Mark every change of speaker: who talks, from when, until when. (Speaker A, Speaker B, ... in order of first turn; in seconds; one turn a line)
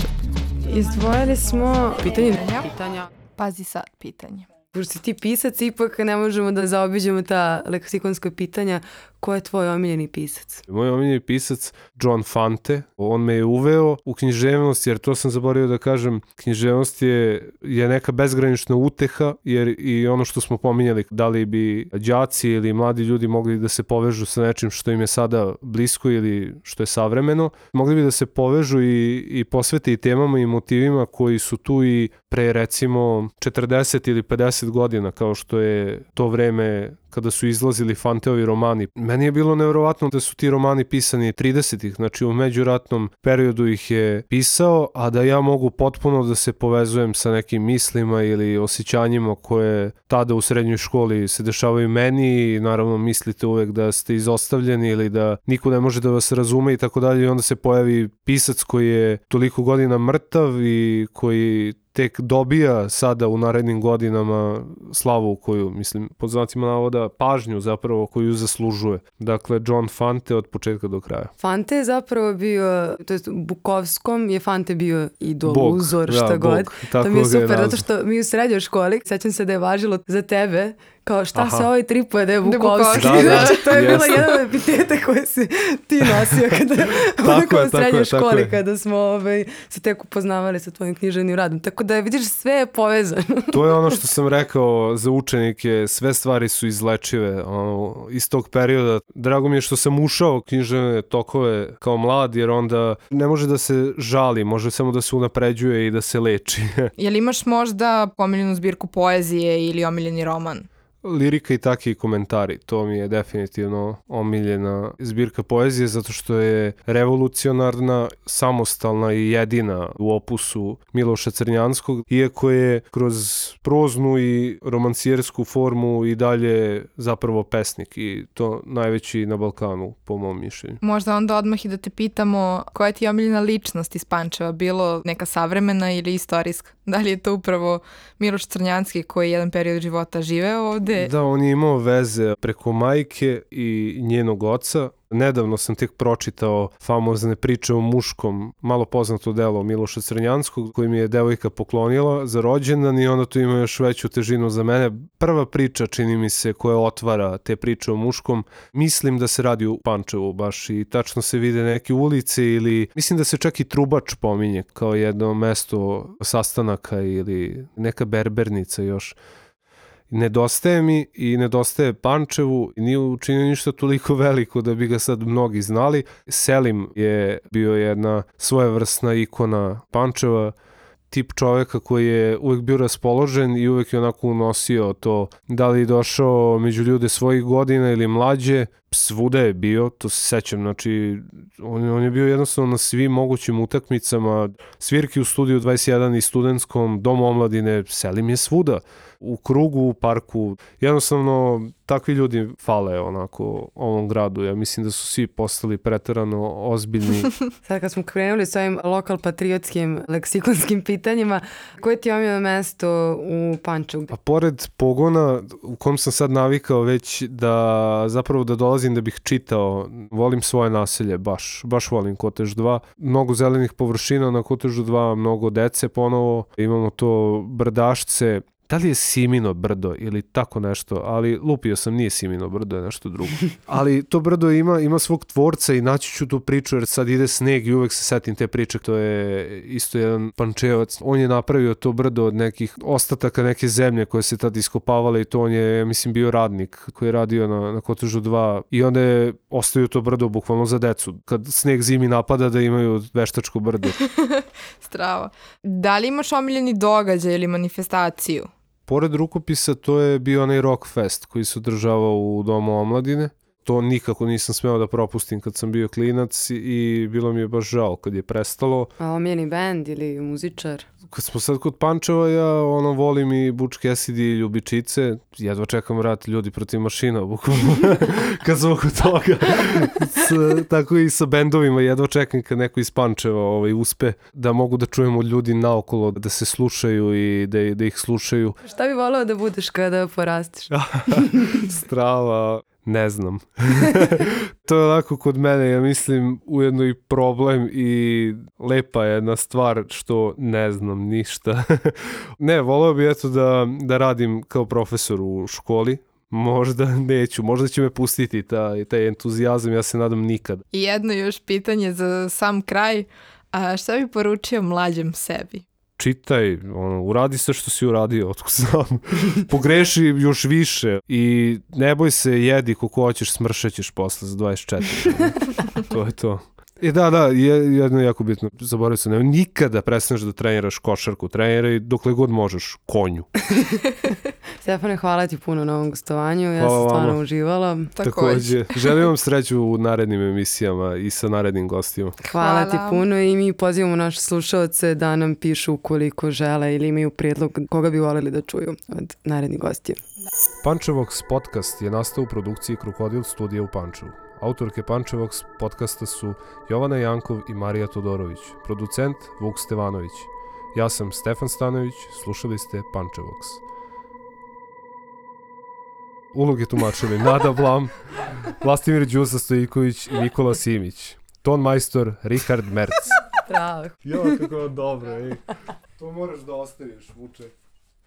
Speaker A: 0.6-3.1
Speaker B: 2.0-2.7
Speaker B: 3.3-4.5
Speaker A: 4.7-10.6
Speaker C: 10.7-71.3
Speaker A: 71.4-94.0
Speaker C: 75.4-77.8
Speaker C: 81.3-81.7
Speaker B: 82.4-84.2
Speaker C: 82.9-84.3
Speaker C: 86.3-86.6
Speaker C: 87.2-88.5
Speaker C: 93.5-106.9
Speaker B: 107.0-110.7
Speaker C: 111.0-130.8
Speaker B: 130.8-141.1
Speaker C: 140.9-169.2
Speaker C: 170.1-180.6
Speaker C: 181.1-207.3
Speaker A: 207.6-214.1
Speaker C: 214.1-254.0
Speaker B: 254.0-258.5
Speaker C: 258.9-268.9
Speaker A: 269.0-270.9
Speaker C: 271.1-288.6
Speaker A: 288.6-291.6
Speaker C: 290.7-310.6
Speaker B: 310.7-315.6
Speaker C: 316.0-333.3
Speaker A: 334.6-337.9
Speaker C: 336.6-337.2
Speaker B: 337.9-339.0
Speaker C: 338.0-342.2
Speaker A: 342.2-350.0
Speaker B: 342.4-343.1
Speaker C: 350.6-363.6
Speaker C: 366.3-373.2
Speaker A: 373.5-374.5
Speaker C: 374.1-375.4
Speaker C: 376.0-377.5